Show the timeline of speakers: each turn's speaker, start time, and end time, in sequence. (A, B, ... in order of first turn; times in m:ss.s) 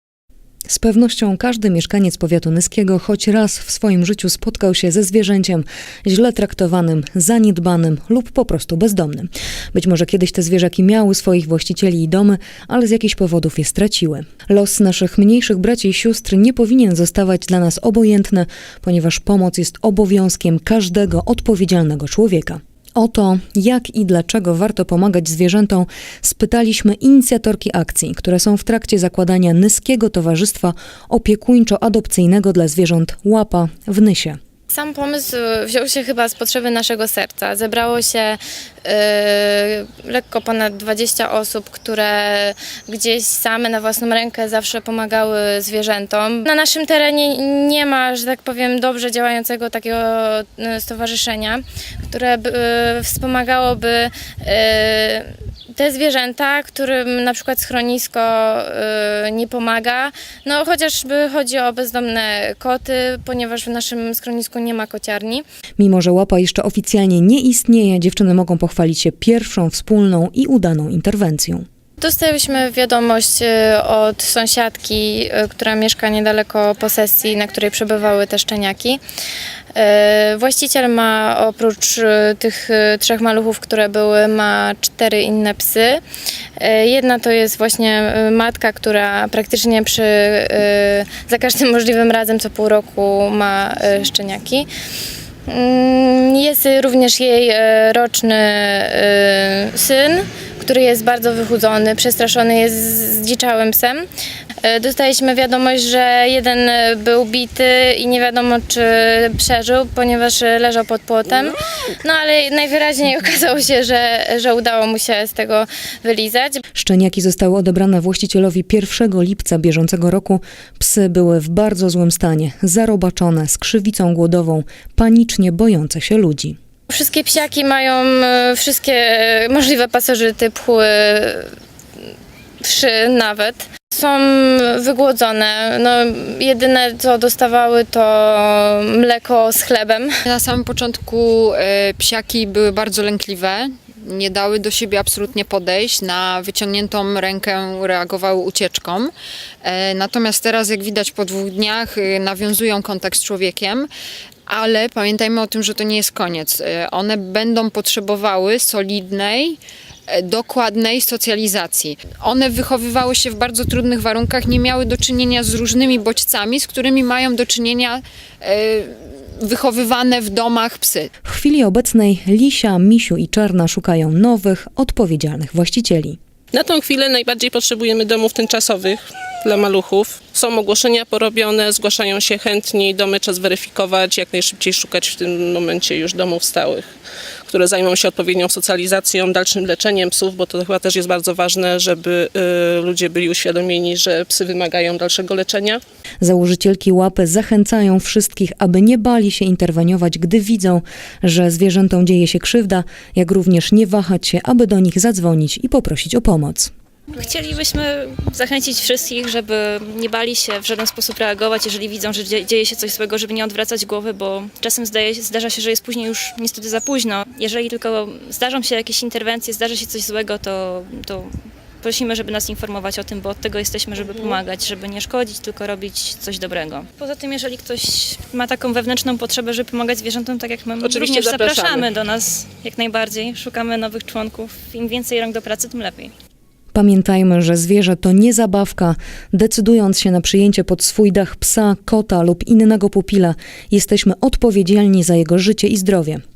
0:00.7-0:34.4 A
0:34.7-1:05.4 B
1:05.8-1:11.6 A
1:12.0-1:19.0 B
1:19.7-1:26.0 B
1:26.6-1:34.7 B
1:35.5-1:44.1 B
1:44.6-1:56.6 B
1:56.8-2:06.6 A
2:06.9-2:11.6 B
2:12.6-2:20.1 B
2:20.3-2:33.9 C
2:34.5-2:51.1 C
2:51.2-2:56.2 A
2:56.5-3:06.8 D
3:07.5-3:15.8 D
3:16.2-3:26.7 A
3:27.1-3:56.1 E
3:50.8-3:51.9 D
3:56.7-4:06.2 A